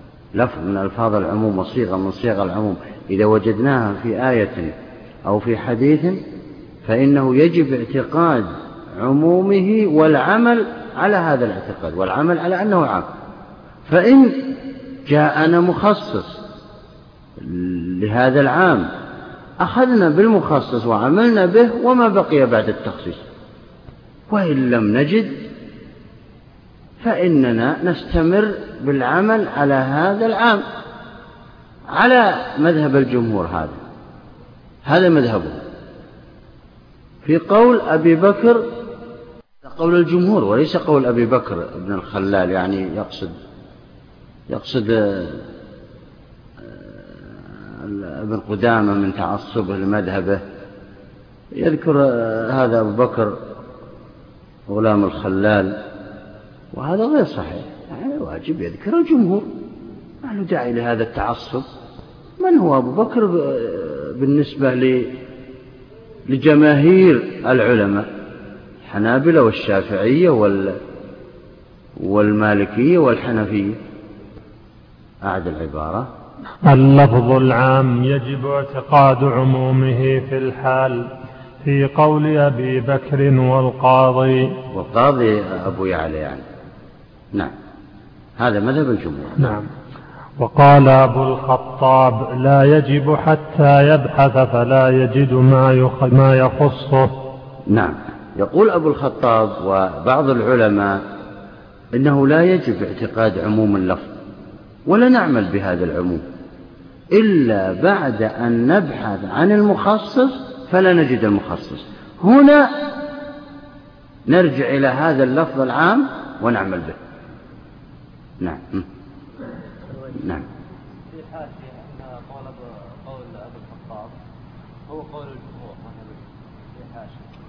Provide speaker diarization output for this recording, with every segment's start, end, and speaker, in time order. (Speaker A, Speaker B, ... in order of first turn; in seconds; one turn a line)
Speaker A: 0.3-6.2
Speaker A: 6.8-13.1
Speaker A: 13.8-16.4
Speaker A: 17.4-18.9
Speaker A: 19.6-23.2
Speaker A: 24.3-25.5
Speaker A: 27.0-30.6
Speaker A: 31.9-33.8
Speaker A: 34.9-35.6
Speaker A: 37.2-38.6
Speaker A: 39.6-43.4
Speaker A: 44.5-45.5
Speaker A: 46.6-50.4
Speaker A: 51.5-53.4
Speaker A: 54.7-55.8
Speaker A: 56.7-59.5
Speaker A: 60.2-61.6
Speaker A: 62.4-65.2
Speaker A: 66.3-68.1
Speaker A: 68.8-70.8
Speaker A: 72.0-73.8
Speaker A: 75.2-76.1
Speaker B: 76.6-81.1
Speaker B: 81.6-84.6
Speaker A: 84.7-86.4
Speaker A: 88.4-89.6
Speaker B: 89.4-89.7
Speaker B: 90.4-97.1
Speaker A: 97.7-101.0
Speaker A: 101.9-104.1
Speaker A: 104.9-106.3
Speaker A: 107.1-112.9
Speaker A: 114.3-117.0
Speaker A: 118.4-118.8
Speaker A: 120.2-120.4
Speaker C: 121.1-124.1
Speaker C: 124.9-127.2